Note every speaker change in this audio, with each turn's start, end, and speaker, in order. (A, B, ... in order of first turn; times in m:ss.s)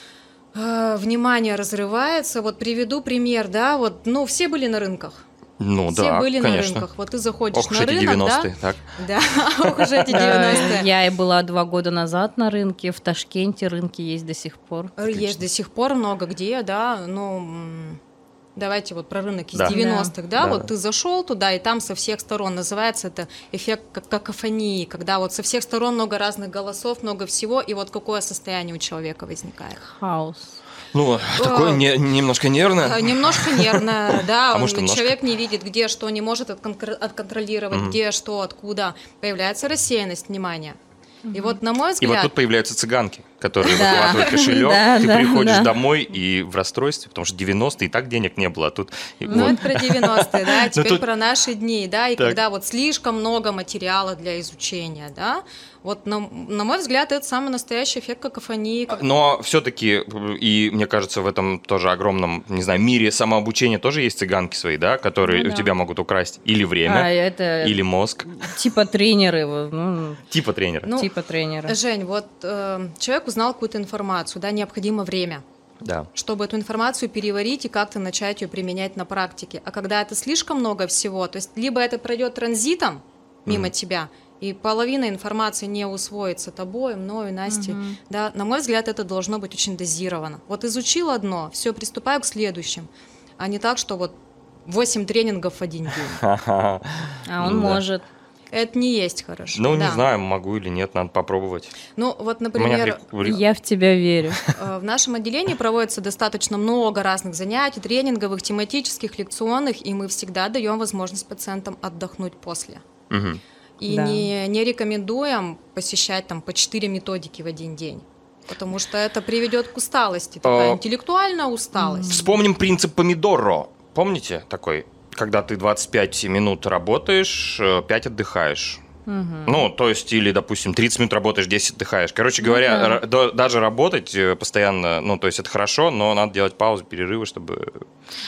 0:00.5-0:05.2 A
0:05.6-0:06.9 B
0:05.9-0:10.9 A
0:07.5-0:08.8 B
0:09.6-0:10.0 B
0:10.1-0:15.0 C
0:15.0-0:18.0 A
0:18.6-0:29.9 A
0:19.7-0:20.1 C
0:20.4-0:20.7 B
0:29.8-0:30.6 C
0:30.9-0:35.2 B
0:31.4-0:31.9 A
0:32.8-0:40.8 A
0:37.7-0:38.0 B
0:41.2-0:41.6 C
0:41.3-0:42.3 A
0:42.0-0:51.0 B
0:43.7-0:45.8 C
0:43.7-0:44.2 A
0:49.2-0:59.0 A
0:49.3-0:49.6 C
0:58.9-1:08.3 B
1:05.2-1:05.7 C
1:06.8-1:10.2 C
1:10.3-1:10.9 B
1:10.8-1:11.1 A
1:10.9-1:11.8 C
1:11.6-1:15.4 A
1:15.8-1:16.1 B
1:16.1-1:34.1 A
1:23.4-1:23.7 B
1:27.5-1:28.0 C
1:34.6-1:36.2 A
1:36.2-1:37.8 B
1:37.3-1:38.0 C
1:38.5-1:40.0 A
1:39.5-1:41.7 B
1:42.0-1:43.0 A
1:42.6-1:43.4 B
1:43.2-1:44.4 C
1:44.5-1:52.8 A
1:53.1-1:53.4 B
1:53.8-2:02.3 A
1:53.9-1:54.3 C
2:00.4-2:00.8 B
2:01.8-2:02.3 C
2:02.1-2:08.8 B
2:09.1-2:09.6 C
2:09.4-2:17.8 B
2:12.4-2:13.0 C